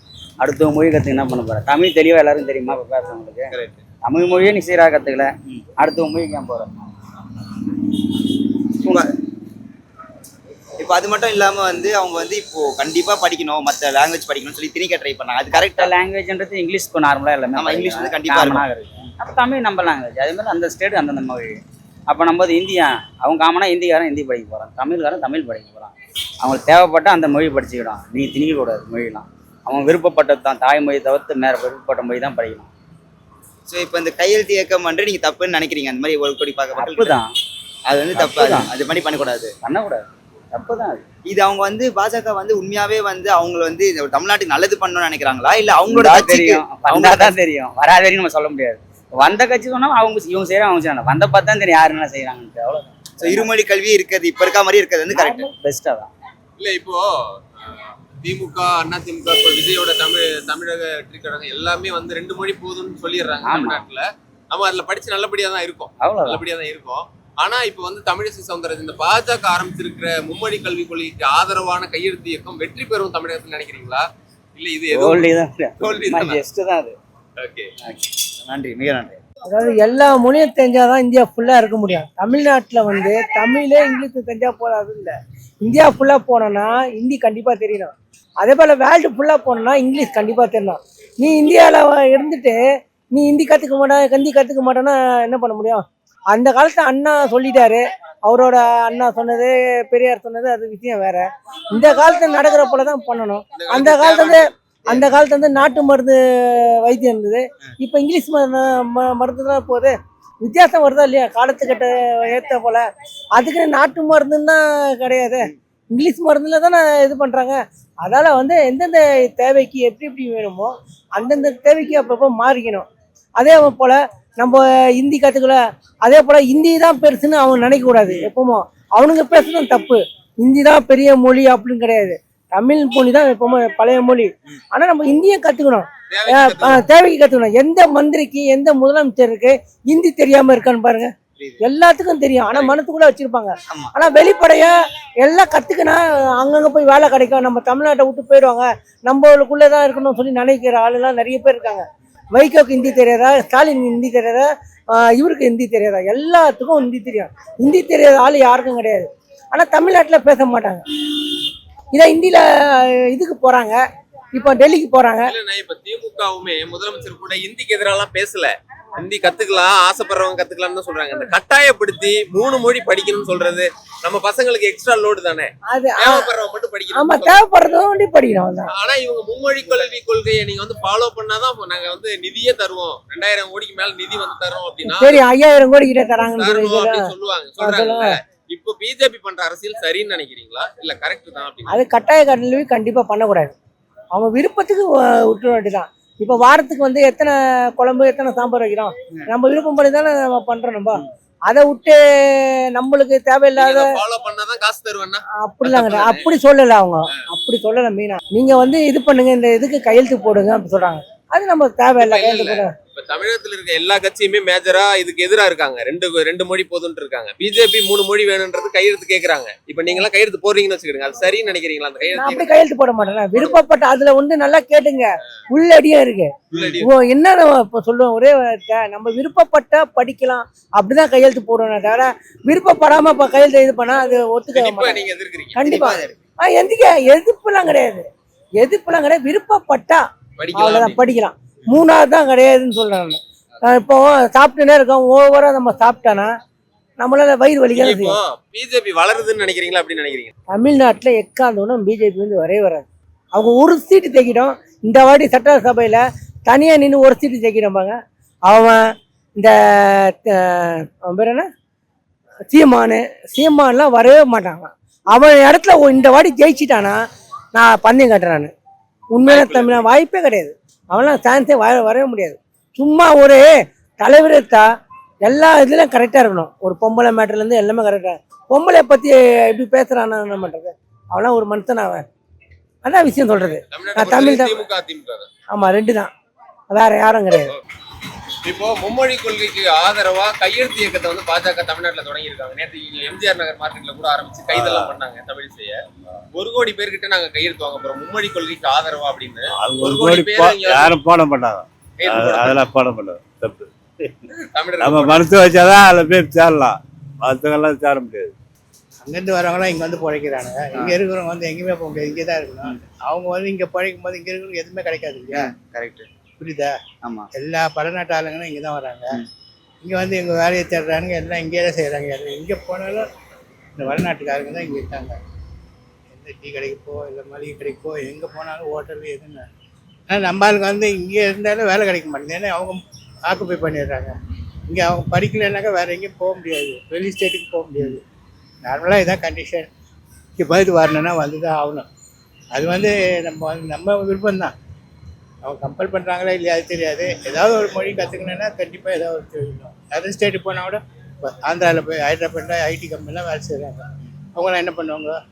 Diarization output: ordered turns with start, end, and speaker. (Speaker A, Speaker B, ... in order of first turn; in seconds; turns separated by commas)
Speaker A: 0.4-3.5, Speaker B: 3.5-3.8, Speaker A: 4.0-6.8, Speaker B: 8.8-9.1, Speaker B: 10.8-15.9, Speaker A: 15.5-32.7, Speaker B: 17.6-18.6, Speaker B: 33.7-37.2, Speaker A: 36.8-37.3, Speaker B: 37.9-39.5, Speaker A: 38.1-38.7, Speaker A: 39.6-41.0, Speaker B: 41.3-47.4, Speaker A: 45.9-53.5, Speaker B: 53.2-55.5, Speaker A: 55.1-56.1, Speaker C: 56.6-57.0, Speaker C: 57.5-74.0, Speaker A: 63.4-63.9, Speaker A: 66.0-66.4, Speaker C: 74.6-75.3, Speaker A: 74.9-77.0, Speaker C: 75.8-76.4, Speaker C: 77.4-77.7, Speaker B: 78.4-79.2, Speaker D: 79.5-92.6, Speaker D: 93.1-112.9, Speaker C: 103.6-104.5, Speaker D: 113.4-141.1, Speaker C: 136.1-136.8, Speaker D: 141.6-160.8, Speaker D: 161.9-163.8, Speaker D: 164.3-165.3, Speaker C: 165.3-177.4, Speaker D: 175.7-176.3, Speaker D: 176.9-178.7, Speaker C: 178.7-185.2, Speaker D: 184.8-187.1, Speaker C: 186.3-191.8, Speaker D: 187.6-188.2, Speaker D: 191.7-193.6, Speaker D: 194.2-203.9, Speaker C: 203.6-206.3, Speaker D: 205.4-212.7, Speaker C: 212.0-222.6, Speaker D: 222.2-235.0, Speaker C: 226.5-226.9, Speaker C: 234.5-235.6, Speaker D: 235.6-238.1, Speaker B: 235.6-236.2, Speaker D: 238.6-240.0, Speaker C: 240.4-241.0, Speaker D: 240.6-246.3, Speaker D: 247.0-248.2, Speaker C: 247.7-250.3, Speaker D: 250.5-258.0, Speaker D: 258.5-258.8, Speaker D: 259.4-261.5, Speaker D: 262.5-267.0, Speaker D: 267.5-268.5, Speaker D: 269.1-273.5, Speaker C: 269.2-269.9, Speaker D: 274.0-274.6, Speaker D: 275.3-282.1, Speaker D: 282.9-284.6, Speaker C: 283.7-285.3, Speaker D: 285.5-286.1, Speaker D: 286.7-287.5, Speaker C: 288.4-295.8, Speaker E: 294.5-295.0, Speaker C: 296.4-301.0, Speaker E: 299.6-304.2, Speaker C: 302.0-302.6, Speaker C: 304.5-305.3, Speaker E: 304.8-308.3, Speaker F: 309.1-315.5, Speaker B: 315.3-316.1, Speaker F: 316.4-316.8, Speaker B: 317.0-317.3, Speaker F: 317.4-319.1, Speaker F: 319.8-323.1, Speaker F: 323.8-325.2, Speaker F: 326.1-329.5, Speaker F: 330.1-334.1, Speaker F: 334.7-338.0, Speaker F: 338.6-339.7, Speaker F: 340.4-341.9, Speaker F: 342.6-344.5, Speaker F: 345.4-355.2